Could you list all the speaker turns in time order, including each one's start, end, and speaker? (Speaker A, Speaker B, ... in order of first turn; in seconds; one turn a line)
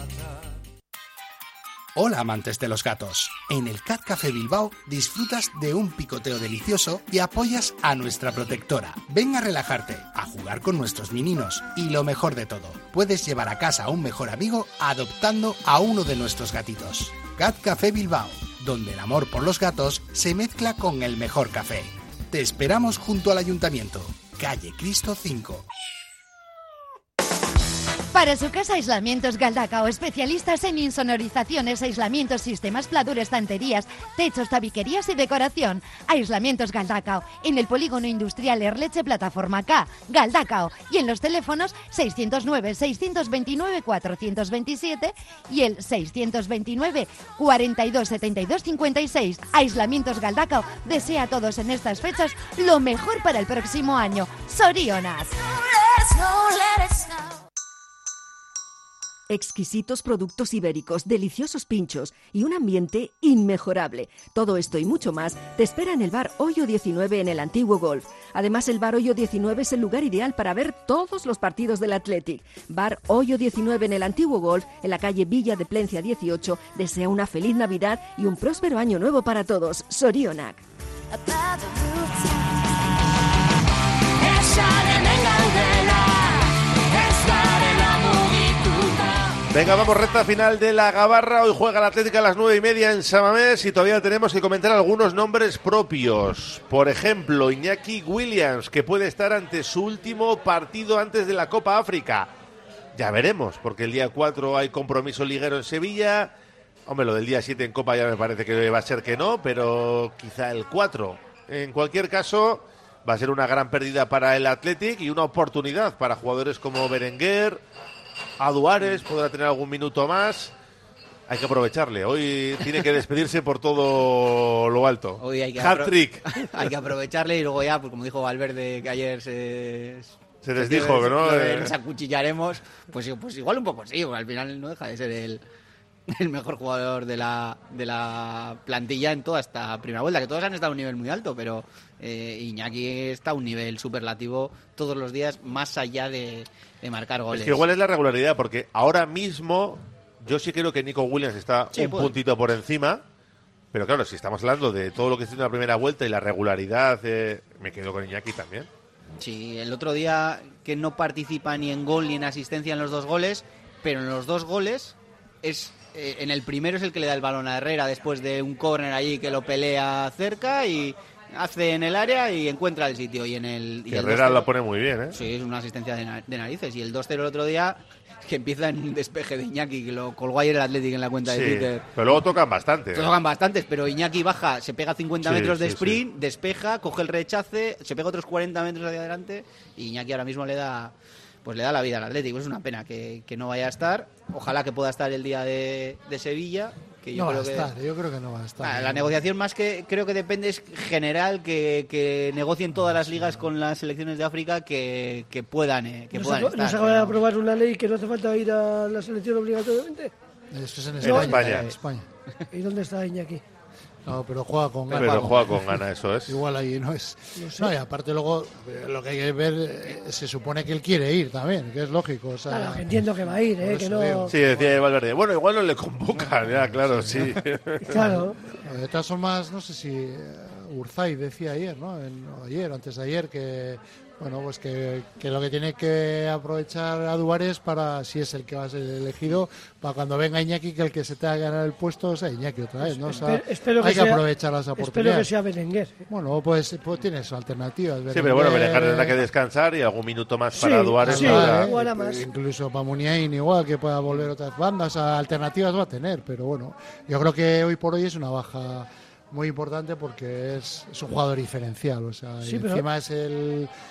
Speaker A: 1.9-25.6
Speaker B: 28.1-55.5
Speaker B: 56.2-57.0
Speaker C: 59.3-80.6
Speaker D: 89.5-102.3
Speaker D: 102.9-106.3
Speaker D: 106.9-117.6
Speaker D: 118.4-120.5
Speaker D: 121.3-126.4
Speaker E: 125.2-135.4
Speaker D: 130.4-131.7
Speaker E: 136.1-147.6
Speaker D: 147.3-153.0
Speaker E: 151.7-152.1
Speaker D: 153.7-158.7
Speaker E: 159.2-174.5
Speaker D: 173.9-175.2
Speaker E: 175.1-182.2
Speaker D: 181.3-183.1
Speaker E: 182.9-190.9
Speaker D: 185.2-186.0
Speaker E: 191.4-197.7
Speaker F: 197.1-199.2
Speaker E: 198.6-207.2
Speaker F: 202.9-203.3
Speaker G: 206.1-210.1
Speaker F: 210.5-212.1
Speaker D: 211.0-211.7
Speaker G: 211.0-211.3
Speaker E: 211.4-211.7
Speaker G: 212.5-213.4
Speaker F: 214.1-224.8
Speaker D: 214.9-216.4
Speaker G: 217.4-217.7
Speaker G: 222.5-224.3
Speaker D: 224.3-228.0
Speaker F: 226.6-245.3
Speaker G: 227.8-228.4
Speaker G: 242.9-244.2
Speaker G: 244.8-246.0
Speaker F: 246.1-249.2
Speaker D: 248.1-251.7
Speaker G: 250.6-252.3
Speaker F: 251.0-263.7
Speaker G: 262.4-262.8